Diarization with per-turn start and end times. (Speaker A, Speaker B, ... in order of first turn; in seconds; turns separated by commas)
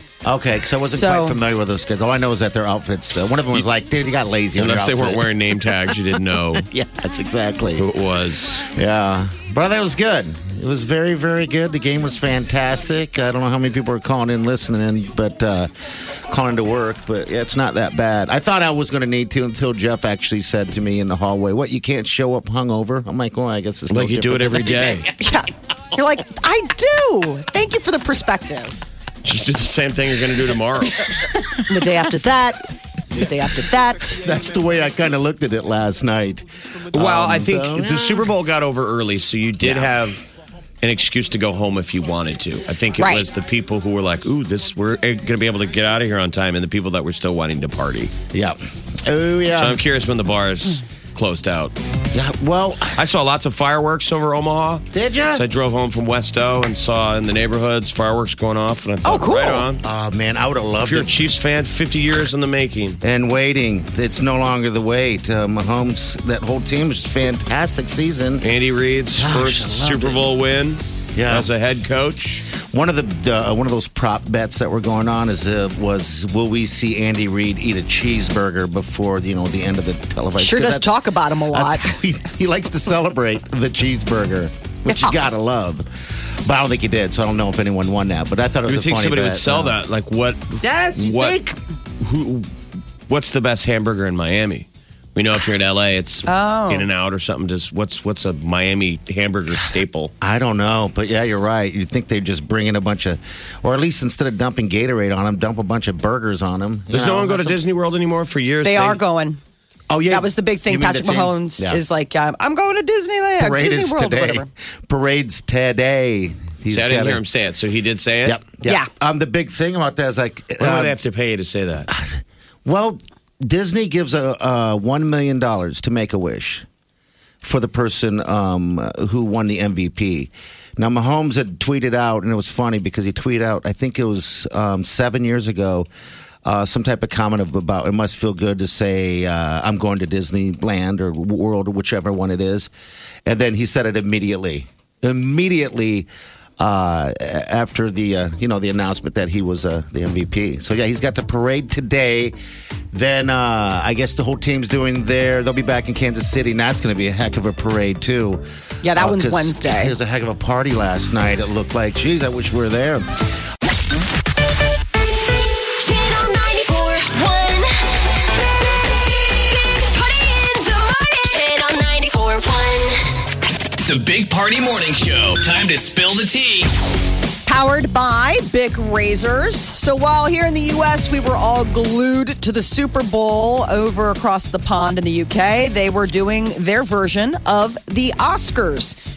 Speaker A: 0.2-5.3, Speaker B: 0.8-1.4, Speaker C: 4.6-6.7, Speaker A: 6.6-7.8, Speaker C: 7.8-8.7, Speaker A: 8.6-25.1, Speaker C: 23.9-25.1, Speaker B: 25.2-28.7, Speaker C: 29.2-31.1, Speaker B: 31.7-34.2, Speaker A: 34.2-38.3, Speaker C: 36.9-40.2, Speaker A: 39.6-40.0, Speaker C: 40.8-48.1, Speaker B: 43.0-43.2, Speaker A: 48.3-49.8, Speaker C: 49.5-51.7, Speaker A: 52.1-53.0, Speaker C: 53.0-59.8, Speaker A: 54.9-55.4, Speaker B: 59.0-59.6, Speaker A: 59.8-61.1, Speaker C: 60.8-63.0, Speaker A: 63.0-68.5, Speaker C: 68.4-72.4, Speaker A: 69.2-70.2, Speaker A: 71.2-71.5, Speaker A: 72.6-80.9, Speaker B: 80.4-81.9, Speaker A: 81.5-89.8, Speaker C: 88.7-91.4, Speaker A: 90.6-91.5, Speaker C: 92.0-92.5, Speaker C: 93.1-100.1, Speaker B: 96.2-96.8, Speaker A: 100.2-107.6, Speaker C: 106.9-109.0, Speaker B: 108.6-109.4, Speaker A: 109.9-111.8, Speaker B: 110.1-114.5, Speaker A: 113.4-117.2, Speaker C: 116.7-118.4, Speaker A: 118.2-121.0, Speaker C: 120.6-121.9, Speaker A: 121.9-126.6, Speaker A: 127.4-135.9, Speaker A: 136.4-142.7, Speaker A: 143.2-152.3, Speaker A: 152.9-163.1, Speaker B: 158.8-159.9, Speaker D: 165.7-168.2, Speaker D: 169.3-173.2, Speaker E: 173.8-176.7, Speaker B: 177.5-189.0